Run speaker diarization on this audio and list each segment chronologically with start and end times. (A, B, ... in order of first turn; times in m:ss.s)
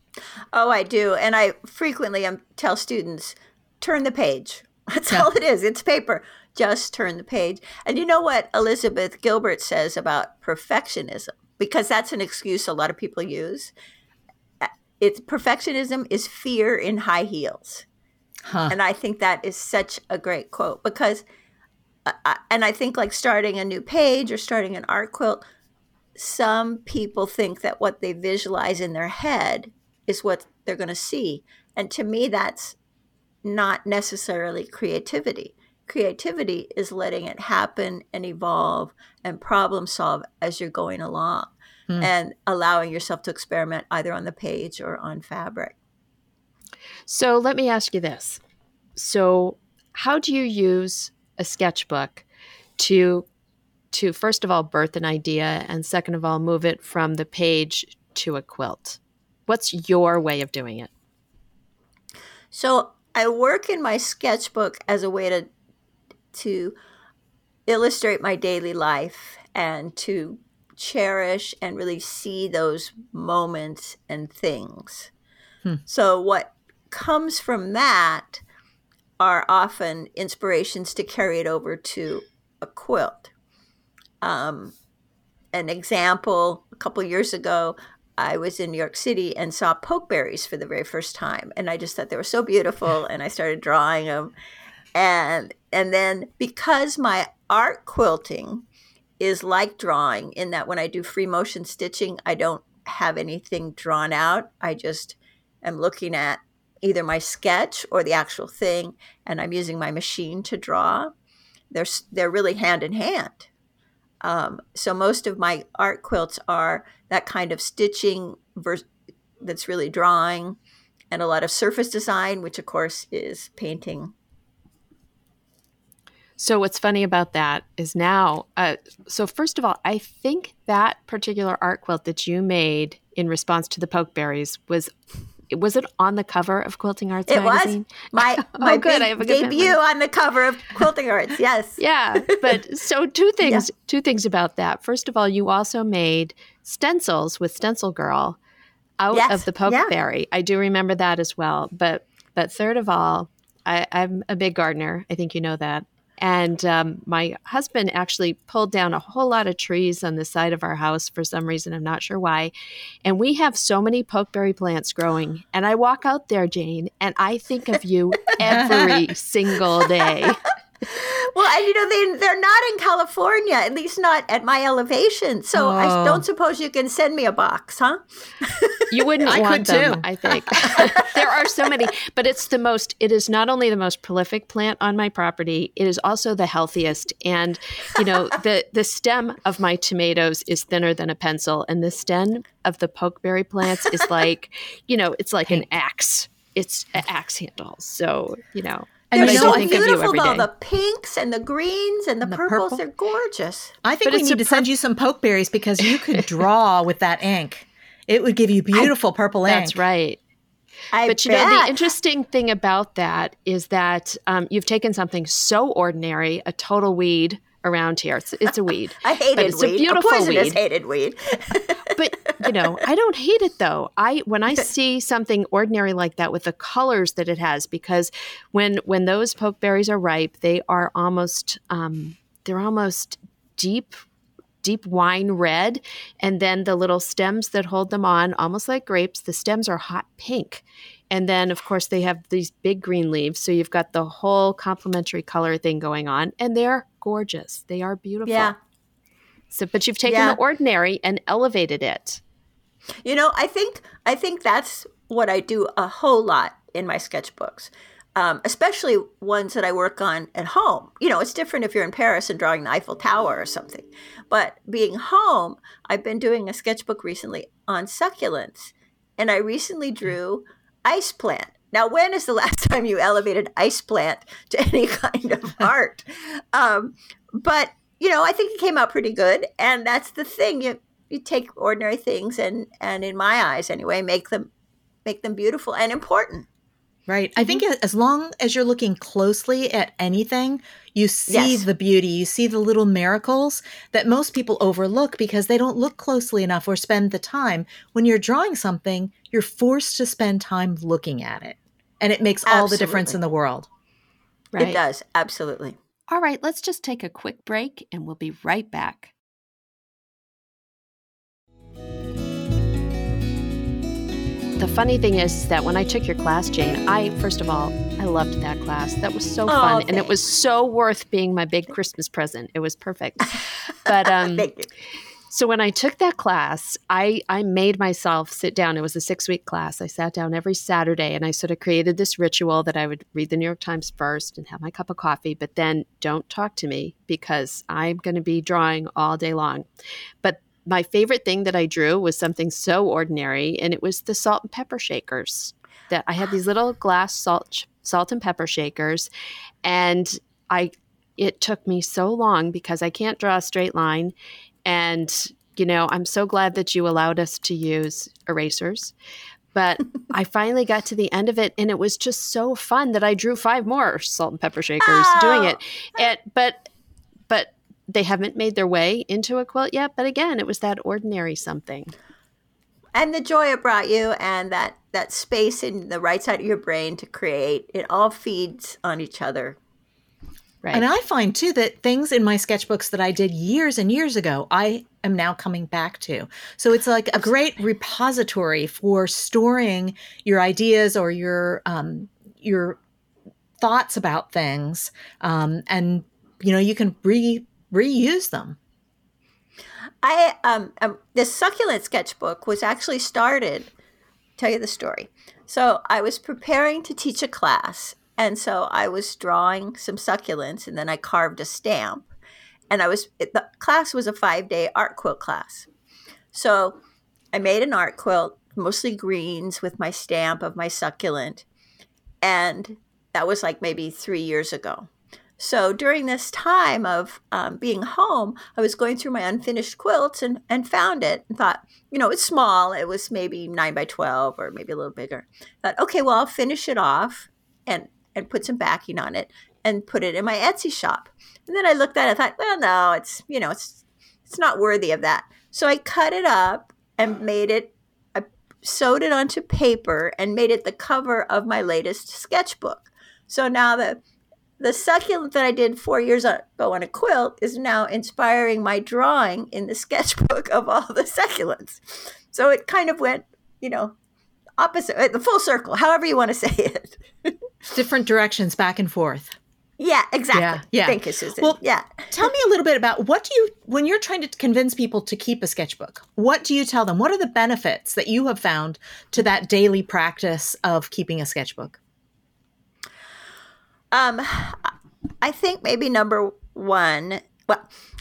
0:00.5-0:13.7 A
0:14.6-0:17.9 A
0:18.4-0:18.8 B
0:18.7-0:21.2 A
0:22.1-0:25.4 A
0:26.2-0:32.8 A
0:33.4-0:45.8 A
0:47.1-0:48.4 C
0:49.0-0:52.3 C
0:52.8-0:53.3 C
0:53.9-1:00.9 C
1:02.5-1:05.5 A
1:06.3-1:06.8 A
1:07.7-1:15.1 A
1:15.9-1:18.4 A
1:19.2-1:23.3 A
1:24.2-1:24.8 A
1:25.5-1:34.3 A
1:35.0-1:38.7 A
1:39.2-1:51.1 A
1:51.7-1:53.5 A
1:54.2-1:58.8 A
1:59.4-2:00.6 A
2:01.1-2:04.1 A
2:06.4-2:14.9 C
2:15.5-2:19.8 C
2:17.3-2:22.6 A
2:21.8-2:28.4 C
2:29.0-2:42.5 C
2:29.1-2:29.9 A
2:43.0-2:50.4 C
2:48.4-2:49.0 B
2:50.9-2:58.9 A
2:55.5-2:56.2 B
2:58.9-3:20.5 C
2:59.3-3:00.0 B
3:00.8-3:01.1 A
3:19.1-3:19.9 B
3:19.1-3:23.8 A
3:22.3-3:22.8 B
3:23.8-3:29.8 B
3:24.0-3:24.6 C
3:29.5-3:30.2 C
3:30.9-3:31.8 A
3:31.1-3:40.6 C
3:39.0-3:42.8 A
3:41.9-3:54.0 C
3:54.6-4:08.5 C
4:08.3-4:08.6 A
4:09.5-4:12.2 C
4:10.0-4:10.4 A
4:13.0-4:44.5 A
4:45.0-4:46.5 A
4:47.1-5:03.7 B
4:51.3-4:51.6 A
5:02.5-5:03.2 A
5:04.5-5:04.8 C
5:04.6-5:05.8 A
5:06.1-5:09.1 C
5:14.6-5:24.5 C
5:19.5-5:20.1 A
5:23.9-5:24.7 A
5:25.3-5:39.6 C
5:40.2-5:49.1 C
5:49.6-5:54.1 C
5:54.6-5:58.9 C
5:59.5-6:06.7 C
6:04.8-6:05.6 A
6:07.3-6:11.9 C
6:12.9-6:19.6 A
6:20.6-6:20.9 C
6:20.7-6:32.8 B
6:33.6-6:38.6 B
6:40.0-6:43.7 A
6:44.4-6:52.1 A
6:52.7-6:55.7 A
6:56.3-6:56.8 A
6:57.3-7:01.4 A
7:02.2-7:34.0 A
7:34.6-7:44.0 A
7:44.6-7:47.4 A
7:47.7-7:49.4 B
7:49.8-7:52.3 A
7:50.3-7:51.6 B
7:52.1-8:01.8 B
8:03.9-8:07.7 A